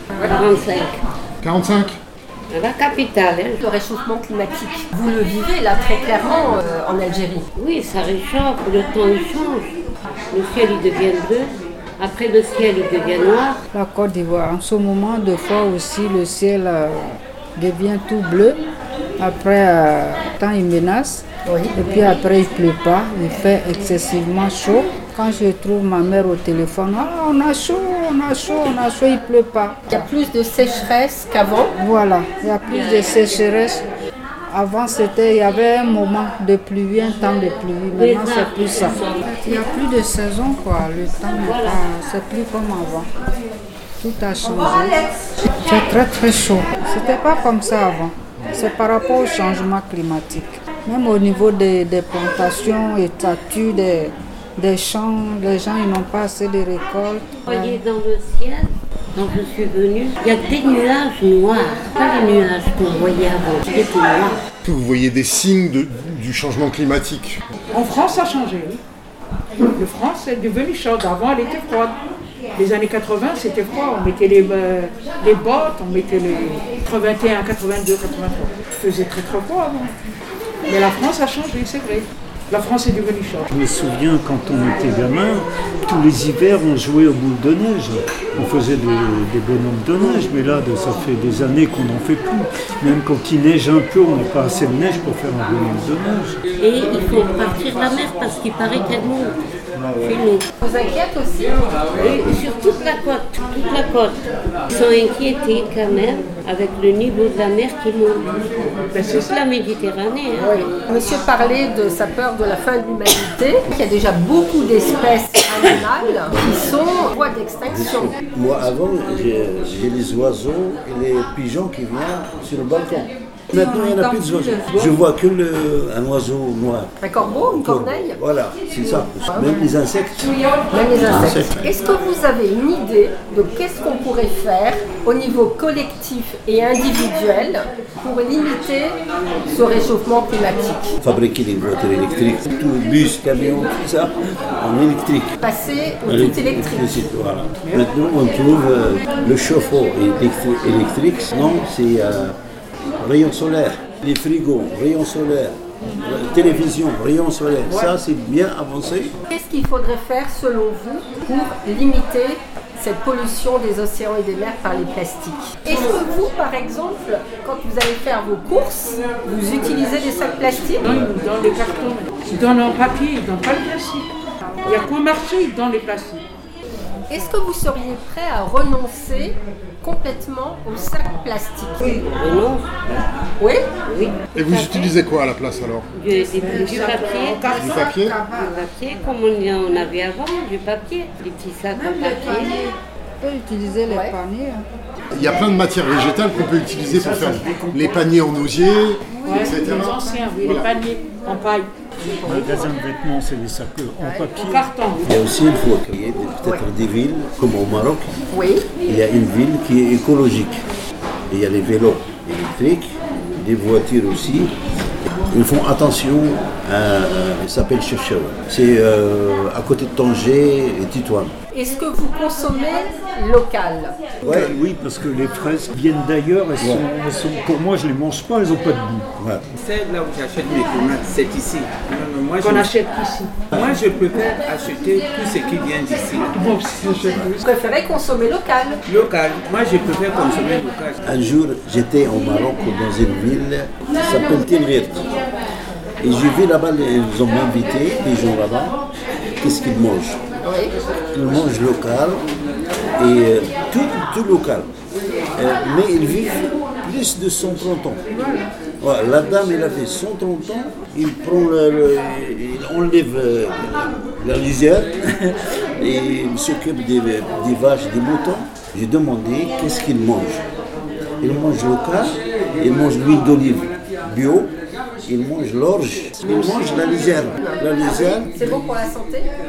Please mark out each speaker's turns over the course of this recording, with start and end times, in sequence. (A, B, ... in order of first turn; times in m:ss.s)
0:00.2-0:01.0 A
0:01.4-0:02.0 B
0:02.5-0:03.6 A
0:03.6-0:07.5 C
0:07.6-0:09.7 A
0:10.3-0:13.6 A
0:13.7-0:18.6 D
0:19.2-0:30.1 D
0:21.4-0:22.0 C
0:29.9-0:31.7 C
0:31.8-0:33.9 D
0:32.7-0:33.4 A
0:34.5-0:43.1 D
0:37.9-0:39.6 A
0:41.4-0:41.9 A
0:44.0-0:45.0 D
0:45.6-0:57.8 D
0:57.5-1:04.4 A
1:04.6-1:07.4 B
1:07.7-1:08.8 E
1:09.7-1:11.9 E
1:12.5-1:19.9 E
1:20.7-1:23.5 E
1:23.5-1:36.4 F
1:36.6-1:39.3 A
1:39.9-1:40.4 A
1:40.6-1:41.6 C
1:41.9-1:42.4 G
1:41.9-1:48.3 A
1:48.9-1:49.4 E
1:49.0-1:50.6 A
1:50.4-1:58.2 C
1:57.7-2:10.3 G
2:03.8-2:04.7 D
2:07.0-2:08.2 C
2:09.2-2:09.7 C
2:10.7-2:19.0 C
2:11.0-2:11.7 G
2:19.5-2:20.9 C
2:21.0-2:25.3 G
2:25.4-2:26.9 C
2:26.1-2:32.4 G
2:33.0-2:39.1 G
2:39.3-2:50.8 C
2:50.8-2:54.1 E
2:50.8-2:51.1 G
2:54.6-2:56.2 E
2:57.1-3:02.0 C
3:01.8-3:03.0 A
3:03.4-3:03.7 C
3:03.8-3:04.9 A
3:04.3-3:05.9 B
3:05.9-3:07.5 A
3:06.4-3:07.8 E
3:07.6-3:08.2 B
3:07.6-3:08.4 D
3:08.3-3:12.7 A
3:11.9-3:14.6 D
3:13.9-3:14.2 C
3:15.1-3:20.7 B
3:16.8-3:18.2 F
3:19.2-3:21.7 E
3:22.0-3:22.7 C
3:22.2-3:24.6 F
3:24.0-3:24.6 C
3:24.4-3:25.0 E
3:25.0-3:28.1 G
3:28.3-3:28.7 C
3:28.8-3:30.6 G
3:31.3-3:34.5 G
3:35.3-3:41.3 G
3:41.5-3:44.0 C
3:44.2-3:44.6 G
3:44.2-3:49.1 F
3:46.6-3:46.8 G
3:49.2-3:49.4 G
3:49.5-3:52.6 H
3:52.4-3:53.3 E
3:53.5-3:56.3 H
3:56.3-3:57.4 E
3:57.4-3:58.8 C
3:58.8-4:01.0 H
4:01.0-4:05.1 G
4:06.0-4:08.8 G
4:09.4-4:10.2 G
4:10.4-4:10.7 C
4:11.1-4:12.2 G
4:13.0-4:14.7 G
4:15.4-4:18.1 G
4:18.8-4:30.4 G
4:31.2-4:34.5 G
4:35.0-4:38.4 G
4:36.8-4:39.3 C